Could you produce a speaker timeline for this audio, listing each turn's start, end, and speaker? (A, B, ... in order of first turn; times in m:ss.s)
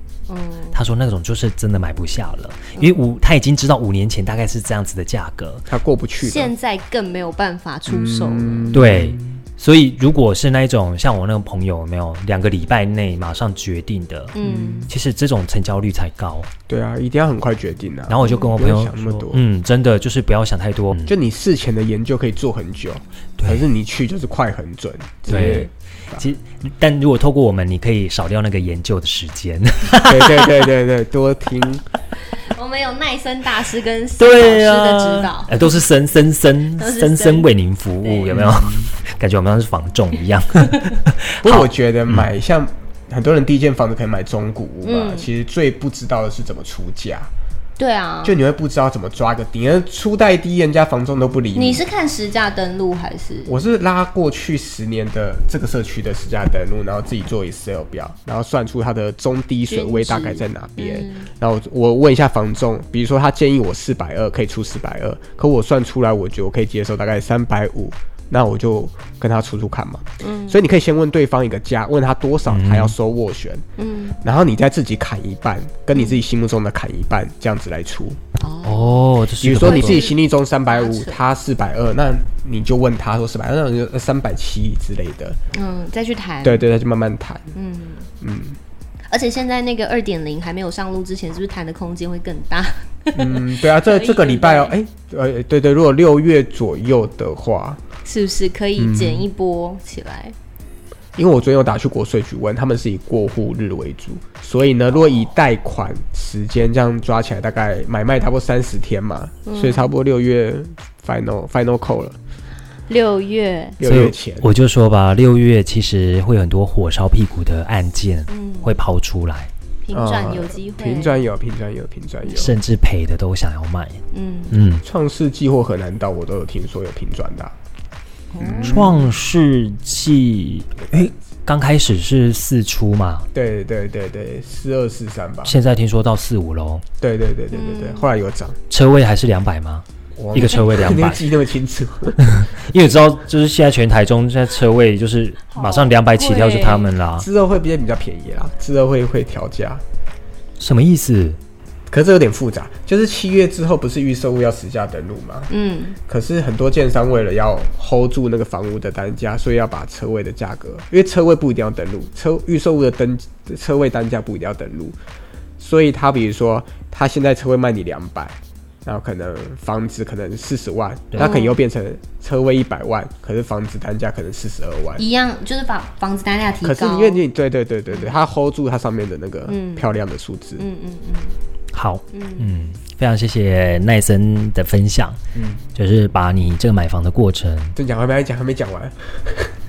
0:00.3-0:00.8 A
0:00.7-0:05.7 B
0:02.8-0:03.0 A
0:05.7-0:06.5 C
0:06.2-0:08.8 A
0:07.9-0:09.4 C
0:08.7-0:14.3 B
0:14.3-0:14.9 A
0:14.4-0:14.9 C
0:14.9-0:16.5 B
0:16.7-0:19.4 C
0:18.1-0:21.2 B
0:18.2-0:18.6 A
0:21.1-0:26.3 C
0:23.4-0:23.7 B
0:25.2-0:25.7 A
0:25.3-0:30.6 B
0:30.0-0:31.8 C
0:32.3-0:35.8 A
0:34.2-0:42.3 B
0:36.8-0:38.6 A
0:38.3-0:38.9 C
0:41.4-0:47.3 C
0:44.8-0:45.3 A
0:47.8-0:48.4 A
0:48.2-0:51.8 C
0:51.6-0:53.5 A
0:53.5-1:13.6 C
0:59.7-1:01.3 A
1:10.2-1:10.6 A
1:12.5-1:13.0 B
1:13.8-1:14.2 A
1:14.2-1:18.2 C
1:15.9-1:16.2 A
1:18.4-1:19.0 A
1:18.6-1:20.0 B
1:19.4-1:25.4 C
1:19.6-1:21.2 A
1:25.5-1:26.6 A
1:26.4-1:27.5 C
1:27.5-1:28.1 A
1:28.2-1:28.6 C
1:29.1-1:34.8 A
1:33.2-1:37.8 C
1:38.0-1:40.4 A
1:38.8-1:39.3 C
1:41.2-1:52.2 C
1:49.5-1:49.9 A
1:52.9-1:53.8 A
1:53.8-1:54.5 C
1:53.8-1:59.5 B
1:58.3-1:58.8 A
1:59.8-2:01.2 A
1:59.9-2:02.6 C
2:02.3-2:04.8 B
2:04.1-2:04.6 A
2:04.8-2:07.5 C
2:08.3-2:09.0 A
2:08.4-2:09.1 C
2:08.6-2:13.3 B
2:13.3-2:15.6 C
2:15.4-2:16.8 B
2:17.0-2:18.6 C
2:17.5-2:18.1 A
2:18.7-2:21.3 B
2:20.2-2:22.2 C
2:22.2-2:27.3 B
2:25.5-2:26.9 A
2:27.2-2:29.8 C
2:30.6-2:31.4 B
2:31.9-2:35.5 C
2:35.5-2:36.0 A
2:36.1-2:45.0 C
2:45.6-2:55.0 C
2:51.2-2:51.6 A
2:55.0-2:57.2 A
2:56.6-3:00.6 C
2:57.9-2:58.2 A
2:59.5-2:59.9 A
3:00.6-3:01.4 A
3:01.7-3:05.2 B
3:02.1-3:02.5 A
3:05.3-3:05.6 C
3:05.8-3:07.8 B
3:07.8-3:09.5 C